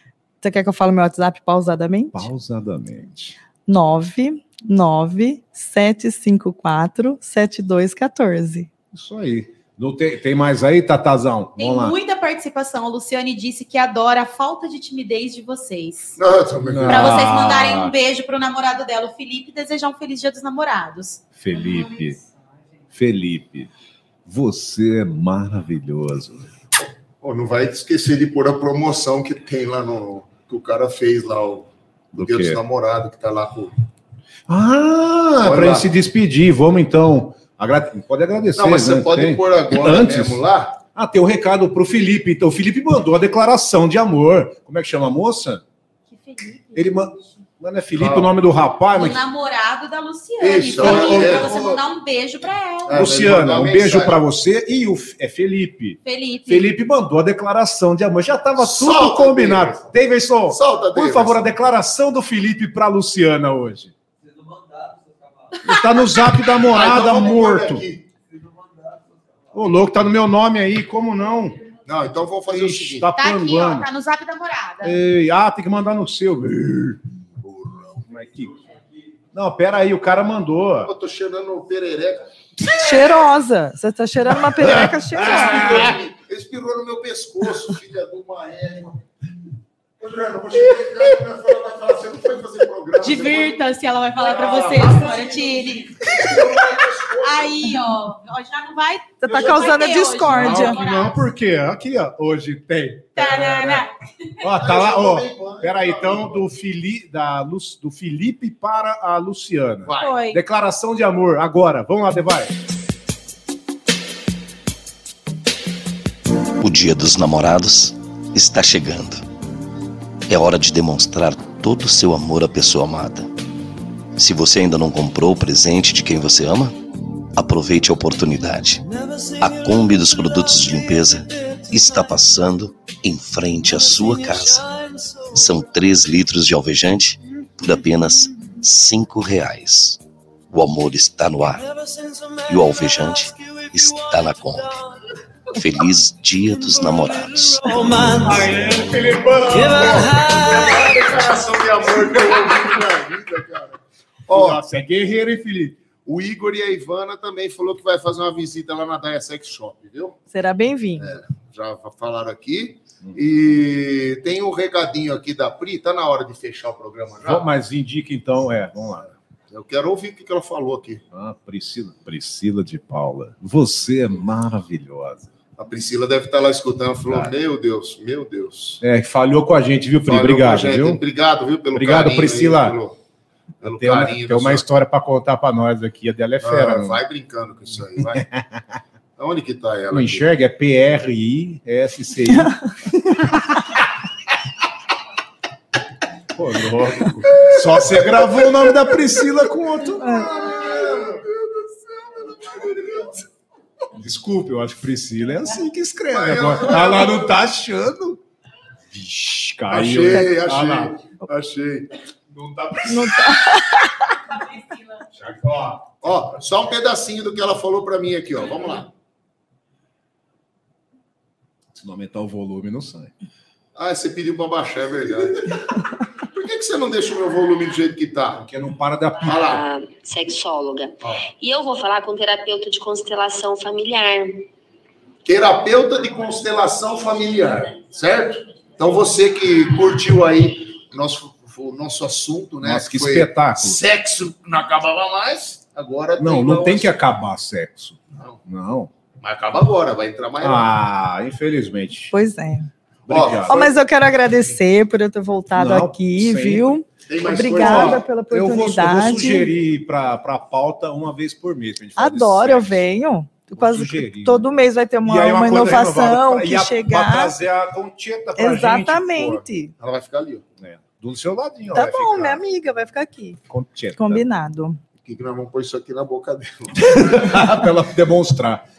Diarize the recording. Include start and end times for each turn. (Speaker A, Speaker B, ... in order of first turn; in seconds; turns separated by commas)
Speaker A: 0.4-2.3, Speaker B: 2.1-3.4, Speaker A: 3.7-8.7, Speaker B: 8.9-11.9, Speaker C: 11.6-16.1, Speaker D: 16.2-17.3, Speaker B: 16.6-17.9, Speaker C: 16.9-21.2, Speaker B: 21.4-22.2, Speaker B: 22.9-23.7, Speaker B: 24.2-26.5, Speaker D: 27.2-33.8, Speaker B: 32.1-32.6, Speaker B: 34.5-45.6, Speaker D: 35.4-35.9, Speaker D: 38.5-40.8, Speaker C: 46.1-47.1, Speaker B: 46.7-49.2, Speaker D: 47.9-48.3, Speaker C: 48.9-53.0, Speaker D: 50.4-51.8, Speaker B: 50.8-51.6, Speaker D: 52.9-54.2, Speaker B: 52.9-63.9, Speaker C: 56.0-56.8, Speaker D: 58.6-59.9, Speaker D: 60.5-61.5, Speaker B: 65.6-67.8, Speaker D: 66.6-68.1, Speaker B: 69.5-71.6, Speaker D: 71.8-73.1, Speaker B: 72.5-73.9, Speaker C: 73.2-75.0, Speaker B: 74.8-77.0, Speaker D: 77.3-78.0, Speaker B: 78.1-78.6, Speaker B: 79.3-80.9, Speaker D: 80.8-82.2, Speaker A: 82.7-85.9, Speaker B: 84.5-86.0, Speaker D: 85.2-89.0, Speaker D: 90.0-93.6, Speaker C: 93.0-96.1, Speaker D: 94.2-97.7, Speaker C: 97.2-101.2, Speaker A: 99.2-100.8, Speaker D: 99.3-99.7, Speaker B: 100.2-103.8, Speaker C: 103.2-103.9, Speaker B: 104.4-112.5, Speaker D: 104.5-106.4, Speaker D: 109.8-110.1, Speaker C: 110.0-110.4, Speaker E: 116.6-119.2, Speaker E: 120.3-123.3, Speaker E: 124.1-126.8, Speaker E: 127.3-144.8, Speaker E: 145.5-148.1, Speaker B: 147.7-152.6, Speaker D: 149.7-154.6, Speaker B: 154.3-155.8, Speaker D: 156.0-160.2, Speaker A: 160.3-161.2, Speaker D: 161.0-167.4, Speaker B: 167.2-169.1, Speaker D: 169.5-171.0, Speaker B: 171.1-175.3, Speaker D: 175.6-178.8, Speaker B: 177.1-177.3, Speaker B: 178.8-181.0, Speaker D: 180.0-183.0, Speaker B: 181.7-182.8, Speaker D: 183.6-184.6, Speaker B: 183.6-187.0, Speaker D: 186.4-188.2, Speaker B: 188.0-188.8, Speaker D: 189.2-190.2, Speaker B: 189.9-193.9, Speaker B: 196.3-201.2, Speaker D: 197.3-199.2, Speaker A: 200.0-200.3, Speaker D: 200.4-203.2, Speaker B: 203.9-208.2, Speaker D: 206.1-207.4, Speaker B: 208.9-210.9, Speaker D: 209.7-211.9, Speaker B: 212.3-213.6, Speaker A: 212.9-214.1, Speaker B: 215.1-216.2, Speaker D: 216.0-218.9, Speaker B: 221.7-223.1, Speaker D: 223.8-225.7, Speaker D: 226.2-228.4, Speaker B: 228.3-229.6, Speaker D: 229.2-229.6, Speaker F: 229.4-234.5, Speaker D: 235.2-246.9, Speaker B: 242.6-243.8, Speaker B: 246.2-248.9, Speaker D: 249.2-250.7, Speaker B: 250.4-252.1, Speaker A: 252.1-252.7, Speaker B: 253.1-253.7, Speaker D: 253.1-253.7, Speaker A: 253.5-259.5, Speaker B: 255.5-262.8, Speaker D: 257.1-258.1, Speaker A: 262.0-267.3, Speaker B: 263.5-264.5, Speaker B: 265.0-269.4, Speaker A: 268.4-269.7, Speaker D: 269.8-270.4, Speaker B: 270.6-272.4, Speaker A: 271.7-273.4, Speaker B: 273.5-274.2, Speaker A: 274.0-274.8, Speaker D: 275.0-277.2, Speaker B: 276.8-278.6